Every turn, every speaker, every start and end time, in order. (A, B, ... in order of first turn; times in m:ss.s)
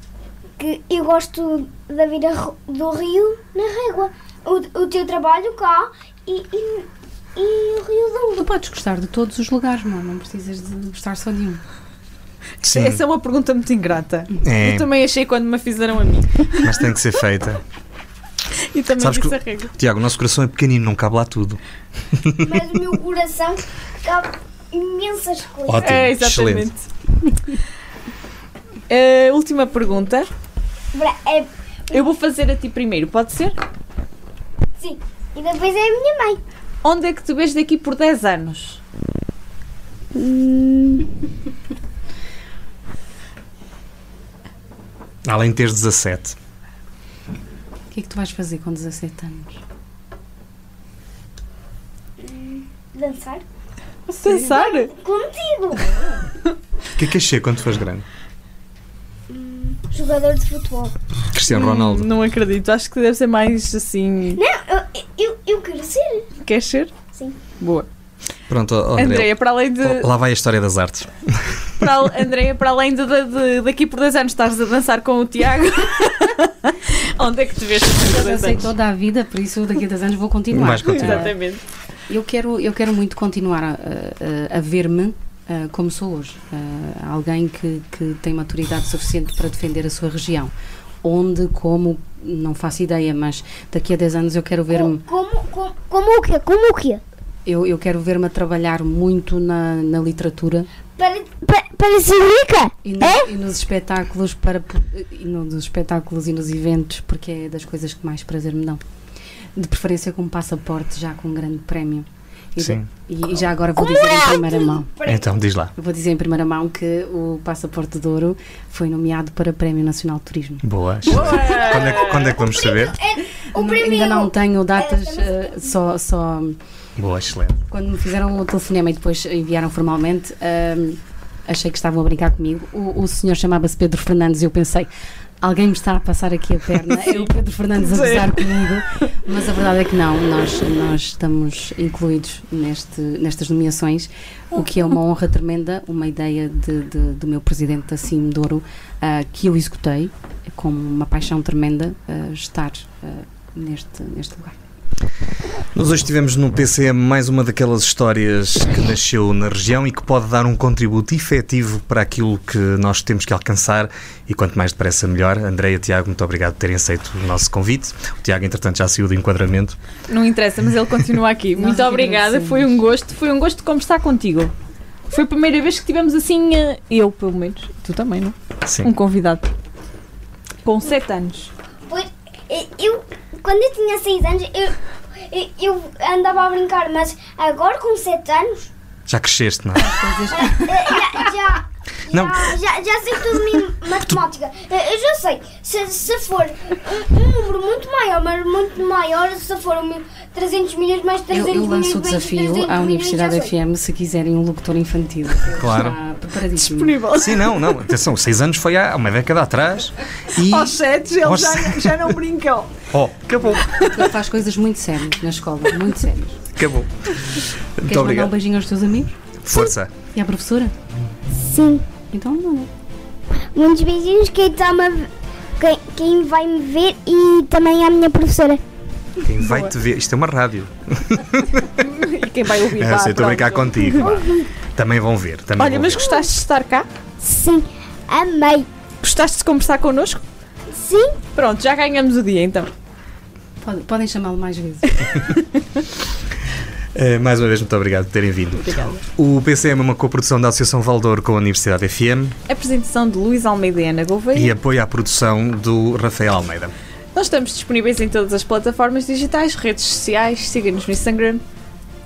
0:00.6-0:08.4 A
0:08.4-0:11.6 B
0:12.6-0:16.8 C
0:12.6-0:13.0 D
0:14.4-0:14.9 D
0:16.6-0:17.6 D
0:18.7-0:19.7 C
0:19.0-0:22.8 D
0:22.4-0:25.9 A
0:25.7-0:26.7 D
0:25.8-0:26.9 C
0:28.9-0:30.3 C
0:30.9-0:32.0 A
0:31.9-0:33.6 C
0:34.8-0:36.4 A
0:36.8-0:38.8 C
0:40.2-0:41.2 A
0:45.2-0:46.4 D
0:47.9-0:49.6 B
0:52.2-0:53.4 A
0:54.1-0:54.6 B
0:54.2-0:54.9 C
0:54.3-0:56.2 A
0:57.0-0:58.0 D
0:59.3-1:01.0 A
1:01.3-1:02.1 D
1:01.5-1:04.4 C
1:04.3-1:06.3 A
1:06.4-1:06.9 C
1:07.6-1:07.9 C
1:08.5-1:11.6 D
1:09.0-1:10.1 C
1:11.8-1:18.7 C
1:18.0-1:21.4 B
1:20.5-1:21.3 D
1:20.8-1:21.6 C
1:22.1-1:30.5 B
1:31.0-1:35.0 B
1:34.7-1:37.0 A
1:37.5-1:40.7 B
1:41.0-1:43.2 A
1:42.8-1:48.8 B
1:49.6-1:54.9 B
1:52.6-1:52.9 D
1:53.8-1:55.3 A
1:55.0-1:55.7 D
1:55.8-2:00.6 B
2:00.6-2:03.0 D
2:01.1-2:02.3 C
2:01.2-2:05.4 A
2:03.5-2:06.6 B
2:07.0-2:07.6 D
2:07.7-2:14.9 B
2:15.4-2:34.6 B
2:17.8-2:19.0 C
2:35.7-2:49.8 D
2:50.1-2:54.5 C
2:51.6-2:52.8 B
2:55.1-2:59.5 C
2:58.7-2:58.9 D
3:00.6-3:01.5 C
3:01.9-3:08.7 A
3:09.1-3:10.0 D
3:09.8-3:11.0 B
3:10.3-3:23.5 A
3:12.1-3:12.6 D
3:21.3-3:27.0 B
3:25.5-3:26.0 D
3:26.6-3:27.7 C
3:27.1-3:32.2 D
3:30.4-3:32.8 C
3:32.9-3:33.7 D
3:33.7-3:36.5 B
3:33.8-3:34.0 C
3:36.6-3:38.3 D
3:37.8-3:39.2 B
3:39.4-3:39.9 D
3:40.1-3:40.7 B
3:41.3-3:41.9 A
3:42.1-3:42.7 B
3:43.5-3:48.6 A
3:49.2-3:51.8 D
3:49.4-3:49.7 C
3:51.8-3:54.1 C
3:52.8-3:56.1 D
3:54.0-3:54.5 A
3:55.6-3:56.9 C
3:57.2-3:58.7 A
3:59.0-4:00.2 C
4:00.7-4:01.2 A
4:01.4-4:02.7 C
4:03.6-4:05.2 B
4:07.0-4:12.4 D
4:08.6-4:09.0 C
4:12.5-4:14.5 C
4:14.3-4:16.7 D
4:17.2-4:21.4 C